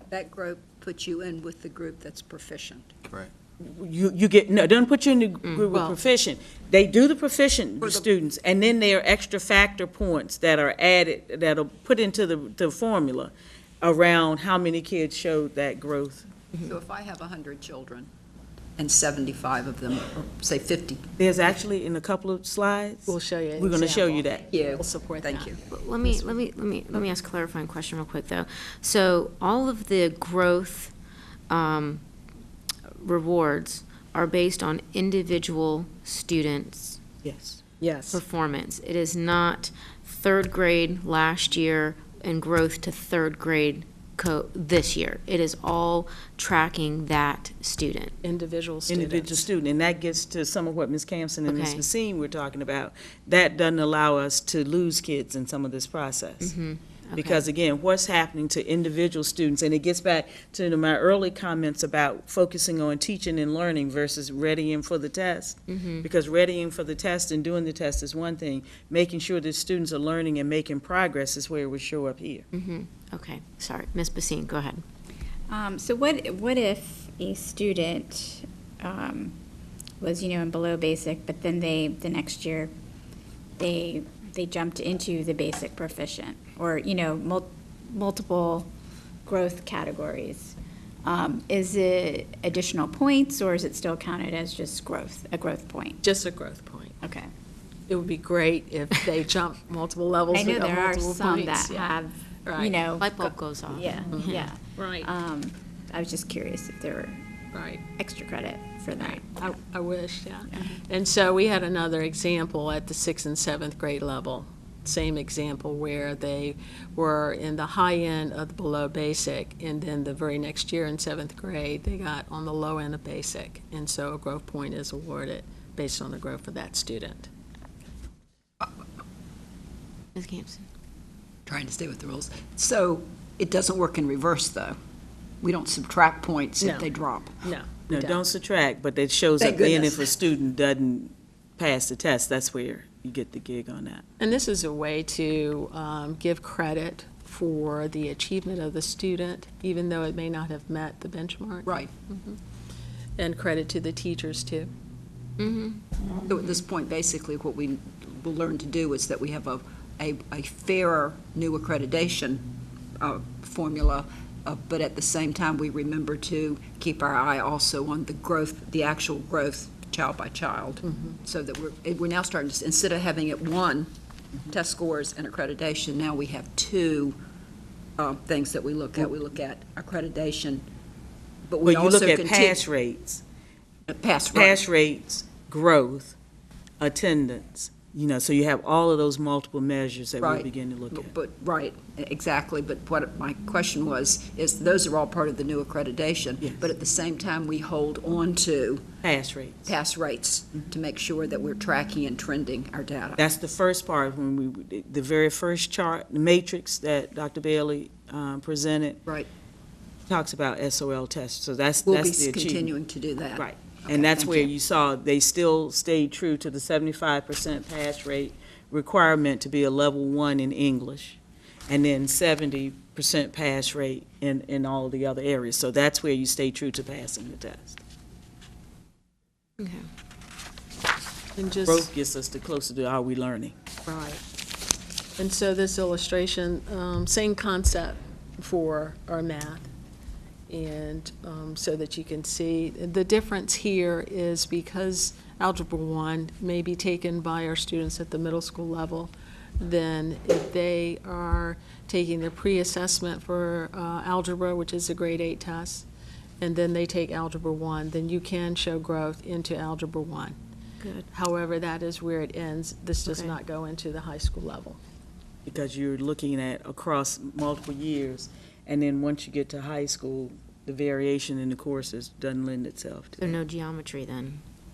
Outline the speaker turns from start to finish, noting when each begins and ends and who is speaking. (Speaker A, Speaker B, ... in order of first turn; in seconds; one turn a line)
Speaker A: 0.1-3.0
Speaker B: 3.6-16.3
Speaker C: 5.7-6.0
Speaker A: 7.8-8.1
Speaker A: 16.6-18.1
Speaker A: 18.8-21.1
Speaker B: 21.2-24.4
Speaker C: 23.1-26.4
Speaker A: 24.5-25.6
Speaker D: 25.7-30.9
Speaker D: 31.5-32.0
Speaker D: 33.0-37.0
Speaker B: 37.2-37.6
Speaker C: 37.8-38.2
Speaker D: 38.1-48.2
Speaker C: 48.2-49.5
Speaker B: 48.9-56.5
Speaker D: 51.5-51.8
Speaker D: 56.4-57.5
Speaker B: 57.2-72.5
Speaker D: 65.7-66.1
Speaker D: 72.5-74.8
Speaker E: 75.5-79.3
Speaker E: 80.0-82.7
Speaker E: 83.6-88.7
Speaker E: 89.3-96.0
Speaker C: 96.0-97.0
Speaker E: 97.0-97.3
Speaker C: 97.9-102.8
Speaker E: 100.3-103.1
Speaker D: 103.0-104.5
Speaker E: 103.7-107.2
Speaker C: 104.1-105.1
Speaker C: 107.5-107.8
Speaker E: 107.8-109.4
Speaker C: 109.0-127.3
Speaker D: 130.2-130.7
Speaker A: 131.5-134.8
Speaker A: 135.4-137.4
Speaker C: 136.6-136.9
Speaker C: 137.4-138.2
Speaker B: 137.9-144.0
Speaker A: 139.4-140.1
Speaker C: 144.2-152.4
Speaker C: 153.2-154.7
Speaker D: 155.4-155.8
Speaker A: 156.3-162.5
Speaker A: 163.0-173.9
Speaker C: 170.8-171.2
Speaker A: 174.4-177.2
Speaker A: 178.0-180.7
Speaker A: 181.5-182.7
Speaker B: 181.7-183.2
Speaker A: 183.9-184.6
Speaker B: 184.3-186.2
Speaker B: 186.8-191.1
Speaker A: 190.2-198.9
Speaker B: 199.0-199.7
Speaker A: 199.7-203.2
Speaker B: 203.2-209.0
Speaker B: 210.1-212.7
Speaker A: 211.8-214.5
Speaker B: 213.4-227.8
Speaker D: 229.6-229.9
Speaker C: 231.4-231.9
Speaker B: 231.7-233.6
Speaker C: 233.9-234.2
Speaker C: 235.2-239.7
Speaker C: 240.5-255.9
Speaker C: 256.4-260.4
Speaker D: 260.8-261.1
Speaker C: 261.1-264.8
Speaker D: 263.1-263.4
Speaker B: 265.5-273.4
Speaker D: 273.2-274.4